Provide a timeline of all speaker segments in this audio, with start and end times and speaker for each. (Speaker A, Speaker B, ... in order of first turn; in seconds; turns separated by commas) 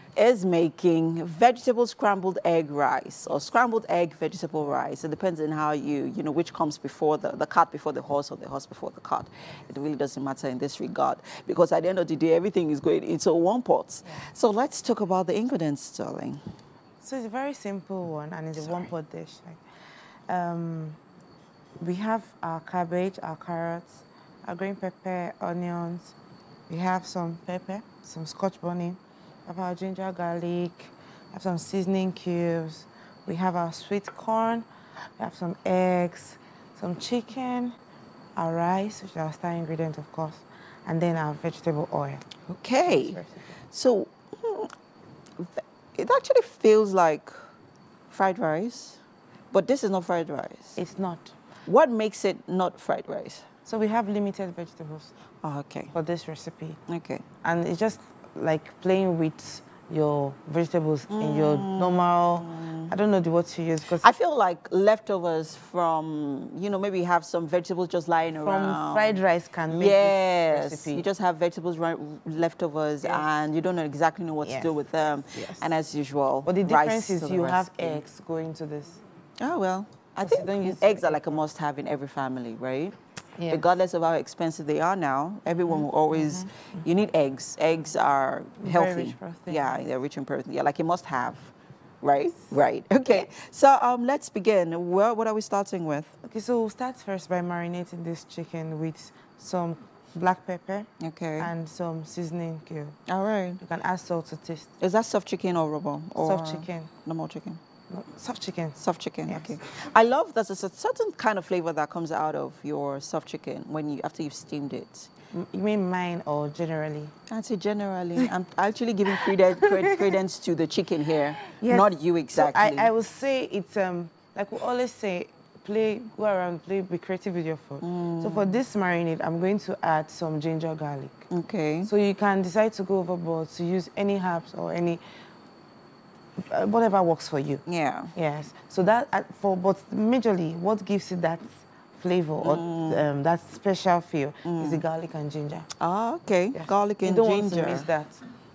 Speaker A: 0.1-16.4, Speaker B: 17.0-19.6, Speaker A: 18.6-18.9, Speaker B: 20.3-21.0, Speaker B: 21.8-26.1, Speaker B: 26.7-34.6, Speaker B: 35.2-37.8, Speaker B: 38.4-42.2, Speaker A: 42.5-44.7, Speaker B: 42.8-43.5, Speaker A: 45.4-47.4, Speaker A: 48.1-49.0, Speaker A: 49.5-50.8, Speaker B: 50.8-51.3, Speaker A: 51.6-53.5, Speaker B: 53.6-55.1, Speaker A: 55.4-55.9, Speaker B: 55.9-56.8, Speaker A: 56.9-57.2, Speaker B: 57.4-64.1, Speaker A: 61.1-62.9, Speaker A: 64.0-69.2, Speaker B: 68.4-71.0, Speaker A: 69.7-78.0, Speaker B: 73.0-73.3, Speaker B: 74.4-75.7, Speaker B: 76.4-79.0, Speaker A: 79.4-82.9, Speaker B: 80.2-81.4, Speaker B: 83.4-83.7, Speaker A: 83.5-96.1, Speaker B: 85.5-86.8, Speaker B: 88.6-89.8, Speaker B: 96.2-103.0, Speaker A: 101.0-101.5, Speaker A: 103.1-103.6, Speaker B: 103.6-104.7, Speaker A: 104.8-107.6, Speaker B: 106.2-106.9, Speaker B: 107.9-109.6, Speaker A: 108.8-115.1, Speaker B: 115.3-117.1, Speaker A: 117.3-122.9, Speaker B: 119.1-120.1, Speaker B: 121.4-131.3, Speaker A: 127.8-128.5, Speaker A: 131.3-131.9, Speaker B: 131.8-135.0, Speaker B: 136.4-137.6, Speaker A: 137.7-138.1, Speaker B: 138.1-145.7, Speaker A: 142.4-143.0, Speaker A: 144.4-144.8, Speaker A: 145.8-147.9, Speaker B: 146.5-148.2